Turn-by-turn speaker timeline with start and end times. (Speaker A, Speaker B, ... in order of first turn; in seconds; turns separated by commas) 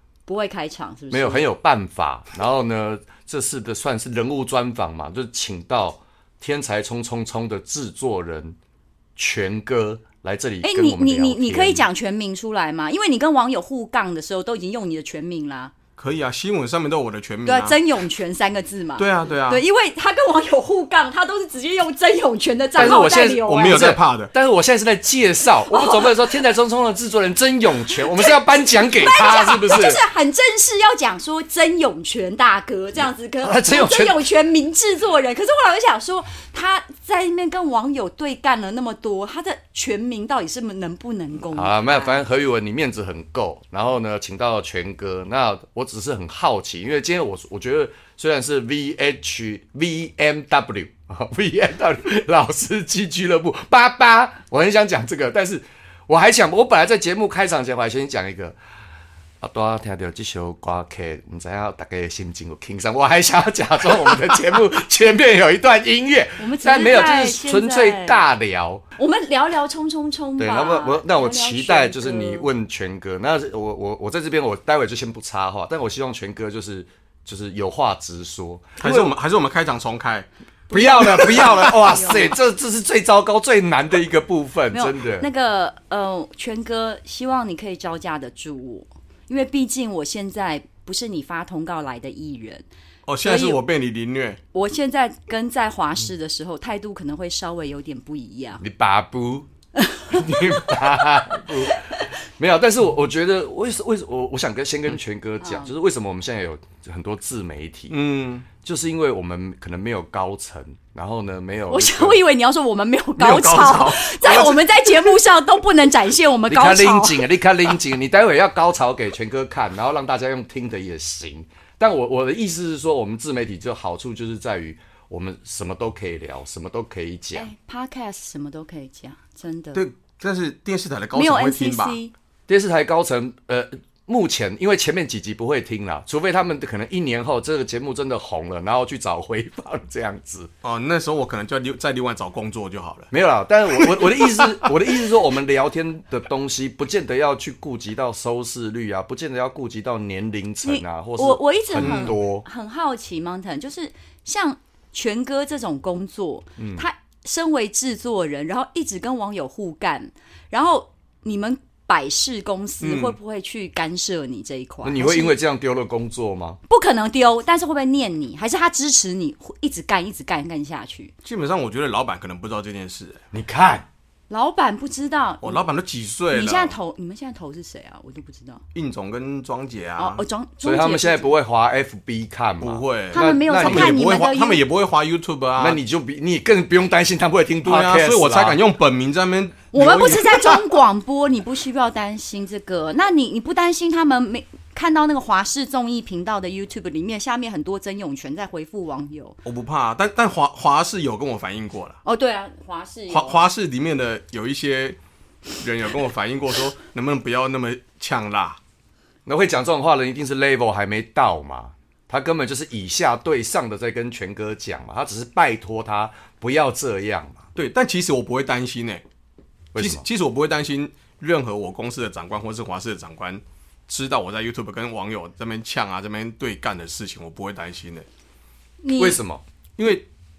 Speaker A: 0.3-1.5, Speaker B: 1.1-8.6, Speaker B: 9.2-11.8, Speaker A: 10.6-15.7, Speaker C: 16.0-17.8, Speaker A: 17.5-23.9, Speaker C: 19.0-19.6, Speaker B: 22.8-30.0, Speaker C: 23.4-24.3, Speaker A: 25.6-26.3, Speaker A: 28.2-42.2, Speaker B: 33.4-34.2, Speaker B: 41.5-58.6, Speaker B: 59.4-68.8, Speaker A: 66.4-68.2, Speaker A: 69.0-72.5, Speaker B: 70.4-79.2, Speaker C: 78.8-80.3, Speaker A: 80.7-82.3, Speaker B: 80.7-85.3, Speaker C: 81.3-81.6, Speaker A: 84.7-92.7, Speaker C: 93.1-94.4, Speaker A: 93.2-93.6, Speaker A: 94.5-98.6, Speaker B: 98.6-99.5, Speaker A: 99.8-100.7, Speaker B: 100.1-108.0, Speaker A: 105.4-105.7, Speaker C: 107.9-108.5, Speaker B: 108.6-112.2, Speaker A: 111.7-117.2, Speaker C: 113.2-115.1, Speaker B: 116.5-127.5, Speaker A: 127.3-129.8, Speaker C: 129.7-132.0, Speaker A: 131.1-132.1, Speaker B: 132.5-140.5, Speaker C: 140.6-143.1, Speaker B: 143.1-152.5, Speaker C: 144.0-144.6, Speaker A: 150.6-165.4, Speaker C: 151.8-152.2, Speaker B: 156.6-156.8, Speaker C: 162.8-163.2, Speaker B: 164.8-166.6, Speaker A: 166.7-171.1, Speaker C: 171.2-173.2, Speaker B: 173.3-173.9, Speaker A: 174.3-175.6, Speaker C: 175.4-176.8, Speaker A: 176.3-178.6, Speaker C: 178.7-180.2, Speaker A: 180.0-181.3, Speaker B: 180.6-184.0, Speaker C: 182.6-185.8, Speaker A: 183.1-184.6, Speaker B: 185.6-188.6, Speaker C: 187.6-190.6, Speaker A: 189.7-199.4, Speaker C: 199.4-202.0, Speaker A: 202.1-203.4, Speaker C: 203.1-205.0, Speaker C: 205.6-208.6, Speaker B: 209.3-217.5, Speaker C: 217.6-219.0, Speaker B: 219.7-220.1, Speaker C: 219.8-228.1, Speaker A: 228.8-229.2, Speaker B: 229.0-229.4, Speaker C: 229.8-230.1